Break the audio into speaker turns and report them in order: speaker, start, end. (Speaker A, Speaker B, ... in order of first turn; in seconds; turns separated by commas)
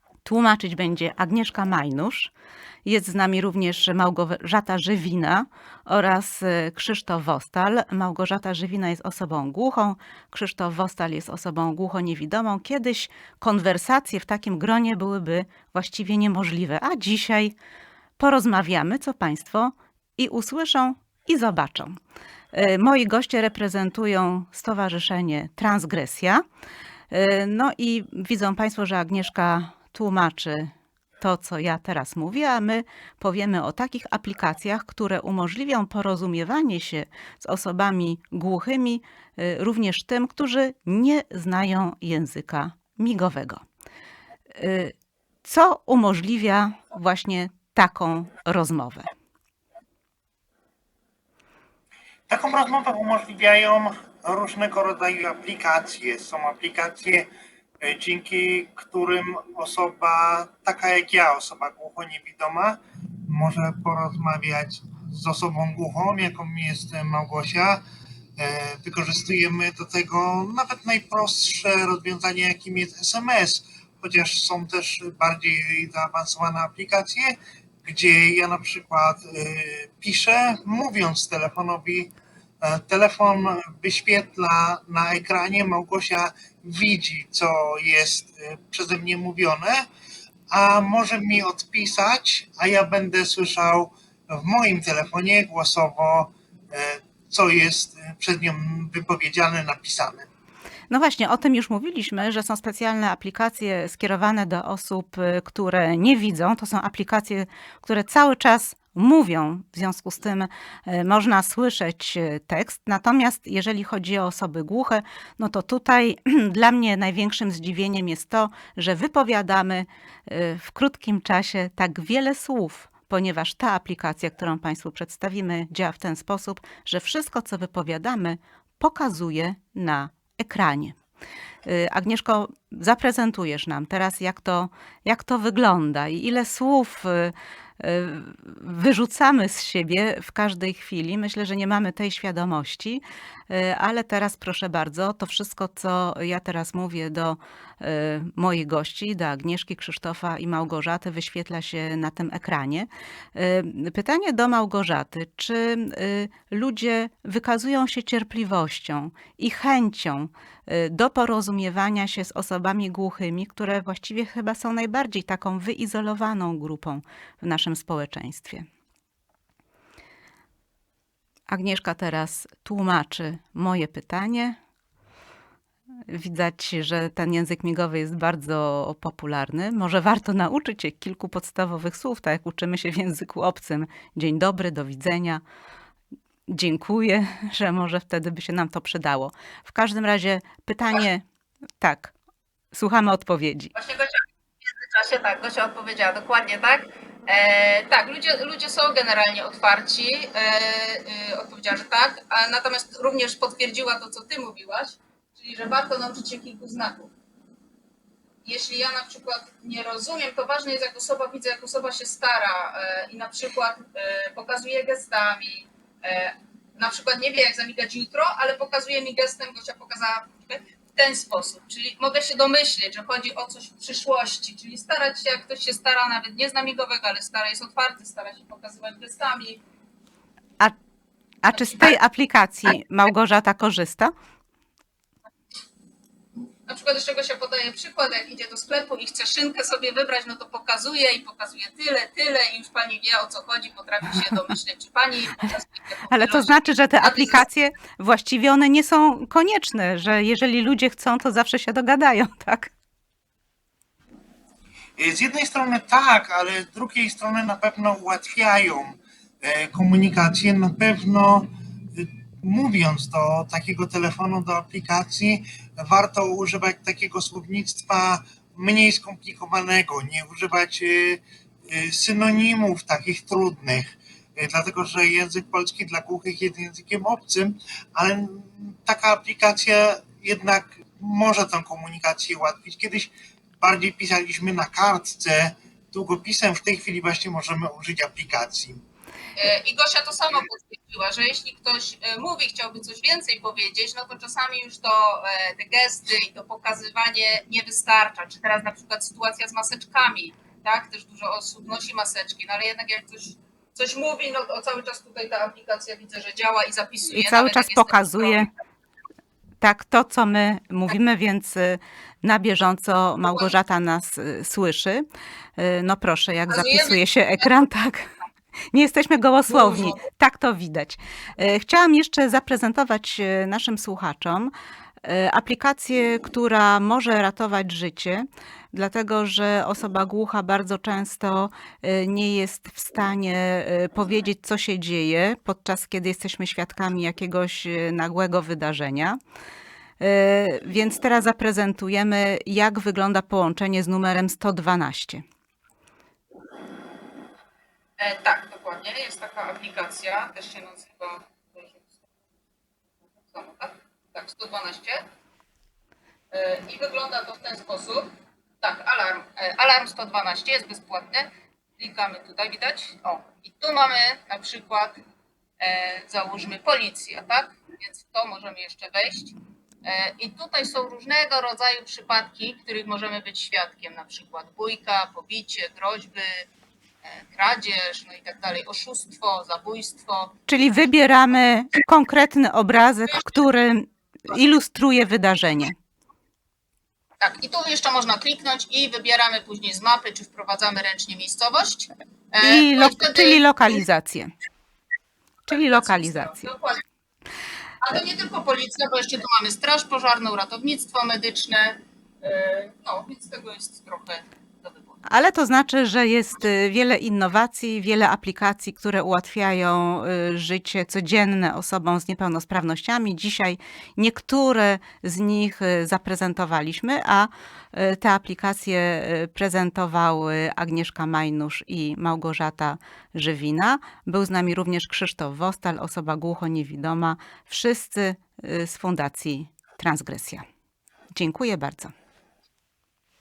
Speaker A: 0.2-2.3, Speaker A: 2.9-17.6, Speaker A: 18.2-22.0, Speaker A: 22.5-26.4, Speaker A: 27.1-43.6, Speaker A: 44.6-49.1, Speaker B: 52.3-57.3, Speaker B: 57.8-67.8, Speaker B: 68.4-89.9, Speaker B: 90.5-100.3, Speaker A: 100.9-131.0, Speaker A: 131.7-168.7, Speaker A: 171.5-174.6, Speaker A: 176.1-185.4, Speaker A: 186.5-191.2, Speaker A: 191.8-192.1, Speaker A: 192.7-193.7, Speaker C: 193.7-207.1, Speaker C: 208.4-229.6, Speaker A: 231.4-234.1, Speaker C: 231.5-231.9, Speaker C: 236.7-247.4, Speaker A: 246.1-252.7, Speaker B: 255.0-288.8, Speaker C: 289.4-308.5, Speaker A: 307.1-308.5, Speaker A: 309.6-315.1, Speaker C: 313.2-313.5, Speaker A: 315.6-318.1, Speaker C: 316.5-317.4, Speaker A: 318.7-324.5, Speaker C: 319.5-320.0, Speaker A: 325.0-339.2, Speaker A: 340.0-345.2, Speaker C: 348.0-352.0, Speaker C: 353.2-355.0, Speaker C: 356.3-358.1, Speaker C: 358.6-365.0, Speaker C: 365.6-376.5, Speaker C: 377.0-380.3, Speaker A: 380.5-385.8, Speaker C: 387.2-393.4, Speaker A: 392.4-394.3, Speaker A: 395.5-396.5, Speaker C: 395.6-396.8, Speaker C: 397.8-405.0, Speaker A: 405.1-430.4, Speaker A: 431.1-431.9